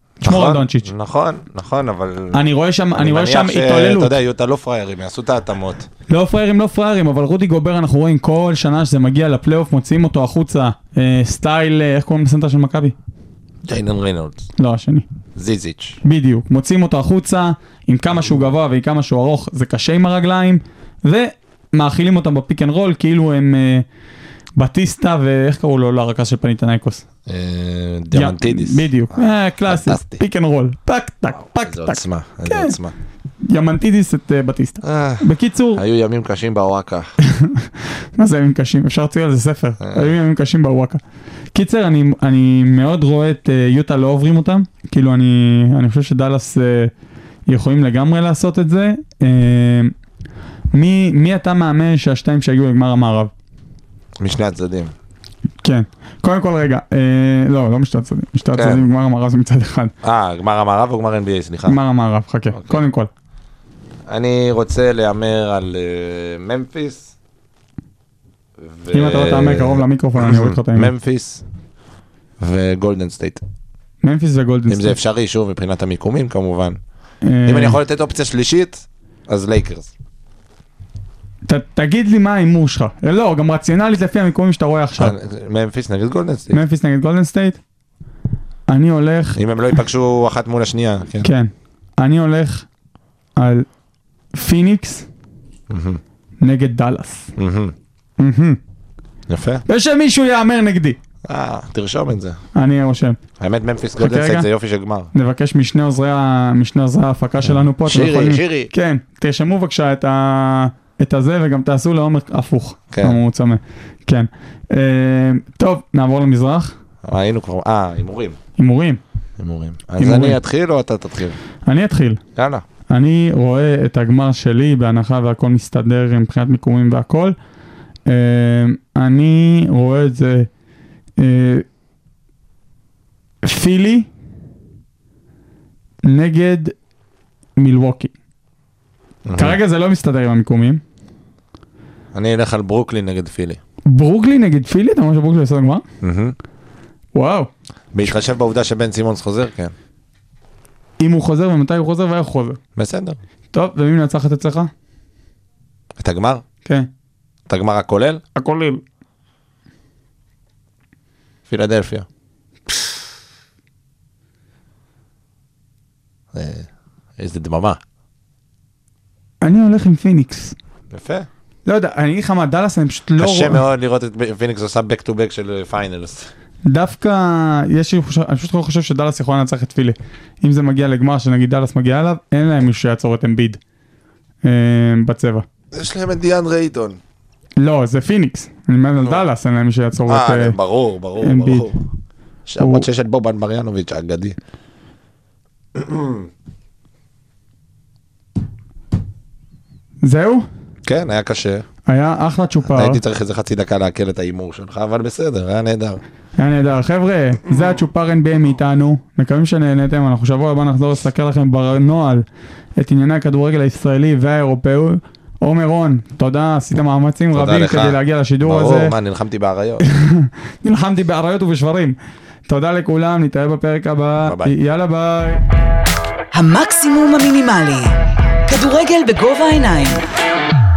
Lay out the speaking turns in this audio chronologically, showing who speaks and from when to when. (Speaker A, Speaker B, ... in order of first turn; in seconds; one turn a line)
Speaker A: 0.2-5.9
Speaker B: 0.2-0.9
Speaker B: 2.3-4.1
Speaker B: 6.1-12.9
Speaker A: 13.6-14.5
Speaker B: 14.6-15.0
Speaker A: 15.4-16.0
Speaker B: 16.0-23.9
Speaker B: 24.6-27.0
Speaker A: 27.2-30.2
Speaker B: 28.1-32.8
Speaker A: 31.4-32.9
Speaker B: 33.4-35.8
Speaker A: 34.8-37.1
Speaker B: 37.2-41.0
Speaker A: 39.8-40.1
Speaker B: 41.5-46.9
Speaker B: 47.5-49.9
Speaker B: 50.7-53.3
Speaker A: 54.2-54.9
Speaker B: 55.6-59.9
Speaker A: 58.5-58.9
Speaker A: 60.0-61.8
Speaker B: 61.6-63.1
Speaker A: 62.5-62.8
Speaker A: 64.1-67.1
Speaker A: 68.6-71.4
Speaker B: 68.9-70.9
Speaker A: 72.4-73.4
Speaker B: 74.0-75.0
Speaker A: 74.7-76.8
Speaker B: 77.2-77.8
Speaker A: 77.4-79.9
Speaker B: 81.5-85.2
Speaker A: 85.0-86.6
Speaker B: 86.5-87.6
Speaker B: 88.7-89.4
Speaker A: 89.4-91.3
Speaker B: 91.2-92.7
Speaker B: 93.4-93.7
Speaker B: 94.3-95.1
Speaker A: 95.7-96.0
Speaker B: 96.4-97.3
Speaker A: 97.4-97.7
Speaker B: 98.2-98.6
Speaker A: 99.3-99.6
Speaker B: 99.7-101.0
Speaker A: 101.2-102.4
Speaker B: 102.5-103.2
Speaker A: 103.4-105.1
Speaker B: 104.0-104.5
Speaker B: 105.1-116.7
Speaker A: 107.8-108.7
Speaker A: 112.9-113.2
Speaker A: 117.0-118.4
Speaker B: 118.6-119.0
Speaker A: 119.4-121.4
Speaker B: 120.0-120.4
Speaker B: 121.6-122.2
Speaker A: 122.4-122.6
Speaker B: 122.9-127.3
Speaker B: 128.1-130.5
Speaker B: 131.2-131.6
Speaker B: 133.4-134.1
Speaker B: 136.0-136.7
Speaker B: 137.6-138.1
Speaker A: 139.2-139.6
Speaker B: 139.4-140.8
Speaker A: 142.1-143.6
Speaker B: 143.9-145.8
Speaker A: 146.0-146.4
Speaker B: 147.1-147.5
Speaker A: 147.9-149.7
Speaker B: 151.0-152.6
Speaker A: 152.8-153.2
Speaker B: 153.5-154.7
Speaker A: 156.0-156.4
Speaker A: 157.5-158.2
Speaker B: 158.3-158.8
Speaker A: 161.5-162.1
Speaker A: 166.3-167.8
Speaker B: 169.4-170.5
Speaker A: 170.9-171.3
Speaker B: 171.7-173.6
Speaker A: 173.2-176.3
Speaker B: 176.6-183.6
Speaker B: 184.4-185.4
Speaker A: 185.7-187.0
Speaker B: 187.6-190.6
Speaker A: 190.1-191.8
Speaker B: 191.2-191.7
Speaker A: 192.5-194.4
Speaker B: 192.6-192.9
Speaker A: 195.7-196.3
Speaker B: 200.0-200.4
Speaker A: 200.8-201.7
Speaker B: 201.9-203.0
Speaker A: 202.7-206.0
Speaker B: 206.4-212.2
Speaker B: 212.8-218.9
Speaker A: 217.3-219.8
Speaker B: 219.8-221.9
Speaker B: 222.5-225.4
Speaker A: 224.2-224.5
Speaker C: 226.3-227.9
Speaker C: 228.5-230.0